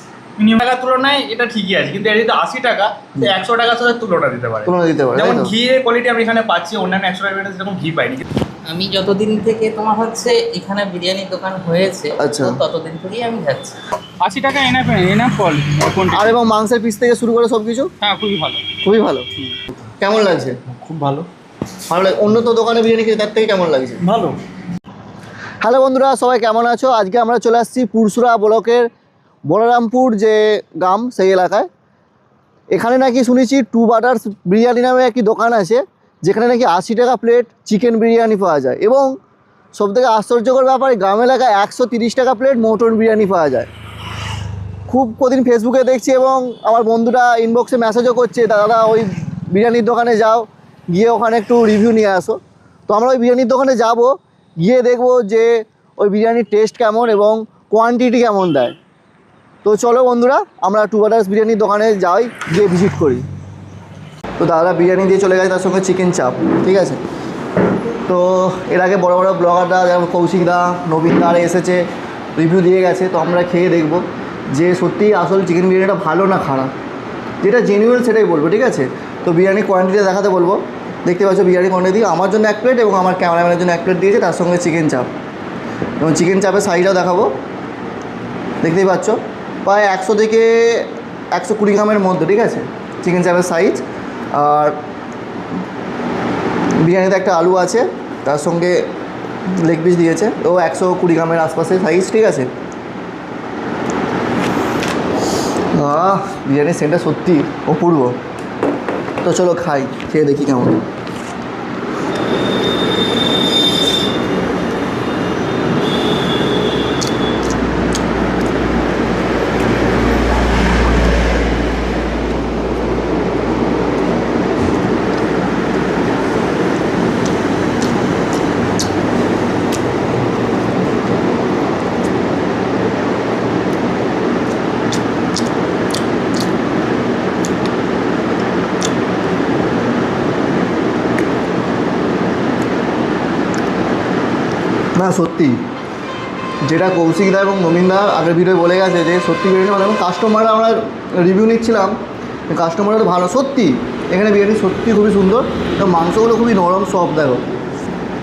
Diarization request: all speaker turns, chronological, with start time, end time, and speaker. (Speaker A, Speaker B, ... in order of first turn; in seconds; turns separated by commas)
Speaker A: 0.4-8.2, Speaker B: 4.6-5.5, Speaker C: 8.7-13.8, Speaker B: 12.2-12.6, Speaker D: 14.2-16.3, Speaker B: 16.1-17.9, Speaker D: 18.0-18.6, Speaker B: 18.8-19.3, Speaker B: 20.0-20.6, Speaker A: 20.7-21.3, Speaker B: 21.9-24.0, Speaker A: 24.1-24.4, Speaker B: 25.6-28.9, Speaker B: 29.5-31.7, Speaker B: 32.7-39.1, Speaker B: 39.8-43.7, Speaker B: 44.9-58.8, Speaker B: 59.6-63.2, Speaker B: 64.4-67.0, Speaker B: 68.1-76.7, Speaker B: 77.4-85.1, Speaker B: 86.0-87.3, Speaker B: 88.6-93.8, Speaker B: 94.3-94.8, Speaker B: 96.8-98.9, Speaker B: 99.5-102.5, Speaker B: 105.7-108.2, Speaker B: 109.2-110.8, Speaker B: 144.9-145.6, Speaker B: 146.6-151.9, Speaker B: 152.5-157.4